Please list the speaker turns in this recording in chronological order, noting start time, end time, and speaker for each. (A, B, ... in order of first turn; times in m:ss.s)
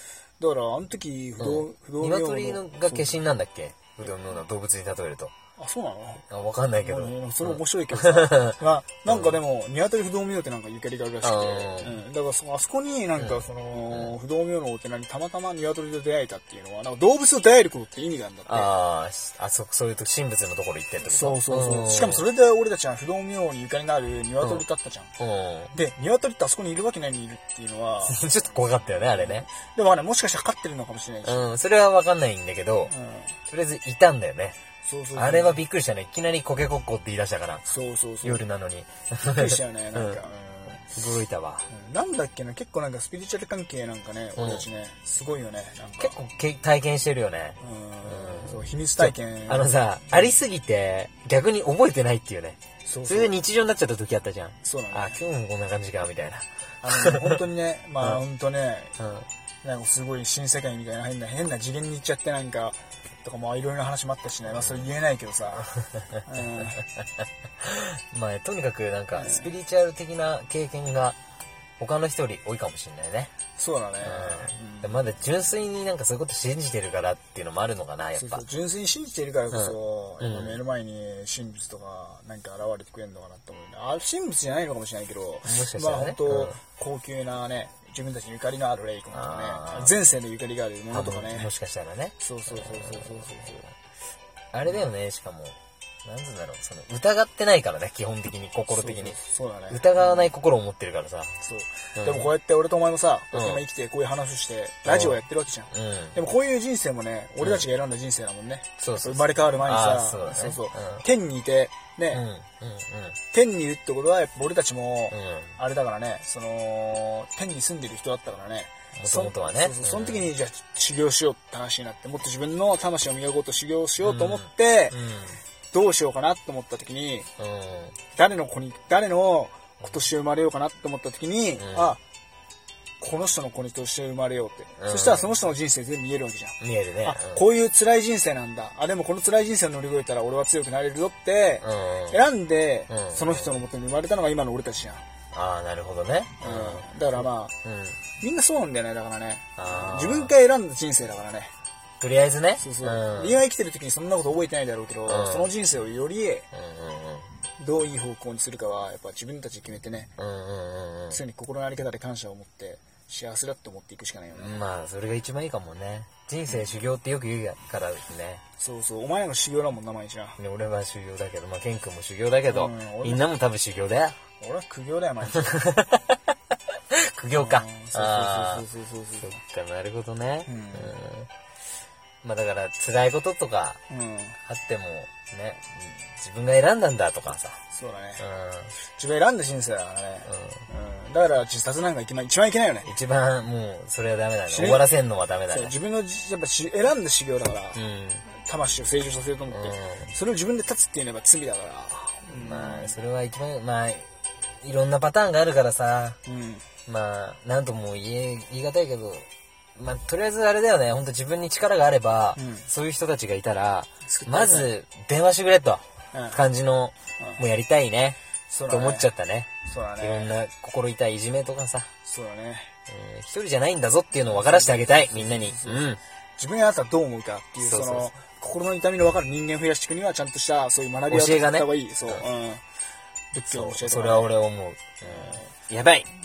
0:00.4-0:03.2 A
0:01.4-0:05.3 B
0:05.6-0:06.2 A
0:06.3-0:08.6 B
0:06.8-0:18.7 A
0:09.1-0:09.4 B
0:11.2-0:12.0 B
0:13.2-0:14.1 B
0:18.5-0:22.2 B
0:21.0-0:25.1 A
0:25.2-0:25.7 B
0:25.7-0:28.2 A
0:28.0-0:29.5 B
0:29.2-0:31.5 A
0:31.2-0:32.9 B
0:32.9-0:33.3 A
0:33.5-0:34.6 B
0:34.8-0:35.6 A
0:35.1-0:37.6 B
0:37.6-0:38.4 A
0:38.2-0:40.2 B
0:39.2-0:40.9 A
0:40.9-0:41.7 B
0:41.7-0:46.1 A
0:44.4-0:44.6 B
0:46.0-0:57.4 B
0:47.6-0:50.4 A
0:52.8-0:53.3 A
0:54.6-0:55.2 A
0:56.8-0:59.0 A
0:59.0-0:59.3 B
0:59.6-1:05.7 A
1:04.5-1:04.9 B
1:06.2-1:06.8 A
1:07.6-1:11.2 B
1:09.1-1:09.5 A
1:11.8-1:13.3 B
1:13.6-1:15.0 A
1:14.0-1:18.4 B
1:18.2-1:31.5 A
1:19.5-1:20.6 B
1:25.4-1:26.6 B
1:29.1-1:30.0 B
1:30.9-1:33.7 B
1:32.2-1:33.6 A
1:34.5-1:39.2 B
1:38.7-1:40.3 A
1:39.7-1:41.3 B
1:41.4-1:52.2 A
1:42.0-1:42.3 B
1:43.3-1:43.6 B
1:44.8-1:45.2 B
1:45.7-1:46.2 B
1:47.4-1:47.6 B
1:48.8-1:51.0 B
1:52.1-1:53.2 B
1:53.3-2:04.9 A
1:55.1-1:55.5 B
1:59.0-2:00.3 B
2:04.0-2:05.4 B
2:05.7-2:07.3 A
2:07.4-2:08.0 B
2:08.1-2:12.0 A
2:11.6-2:12.0 B
2:13.0-2:25.0 A
2:14.8-2:15.3 B
2:16.6-2:17.4 B
2:21.6-2:22.2 B
2:22.9-2:23.5 B
2:25.3-2:28.0 B
2:26.4-2:27.5 A
2:28.2-2:31.5 A
2:29.6-2:30.3 B
2:32.0-2:33.4 B
2:32.6-2:36.5 A
2:35.1-2:35.5 B
2:36.5-2:37.3 B
2:37.6-2:40.1 A
2:40.2-2:41.2 B
2:41.1-2:44.6 A
2:44.3-2:48.4 B
2:48.6-2:50.4 A
2:50.4-2:54.2 B
2:52.5-2:53.2 A
2:54.4-2:55.6 A
2:55.4-2:56.2 B
2:56.9-2:58.6 B
2:57.3-2:59.4 A
2:59.2-3:01.3 B
3:00.4-3:01.0 A
3:02.2-3:03.8 B
3:03.9-3:04.4 A
3:04.4-3:07.6 B
3:07.7-3:08.2 A
3:08.2-3:08.7 B
3:08.8-3:12.9 A
3:10.3-3:10.6 B
3:12.8-3:15.7 B
3:14.5-3:14.9 A
3:15.5-3:23.0 A
3:17.7-3:18.2 B
3:19.5-3:20.1 B
3:22.3-3:24.0 B
3:24.6-3:26.2 B
3:26.2-3:26.6 A
3:26.9-3:38.2 B
3:32.4-3:32.7 A
3:34.1-3:34.7 A
3:36.1-3:36.4 A
3:38.5-3:39.1 A
3:38.7-3:41.9 B
3:39.6-3:40.3 A
3:42.0-3:42.7 A
3:42.9-3:46.0 B
3:44.3-3:45.8 A
3:46.4-3:52.6 A
3:47.6-3:48.1 B
3:51.1-3:52.2 B
3:53.3-3:54.3 A
3:53.5-3:56.1 B
3:55.0-3:55.4 A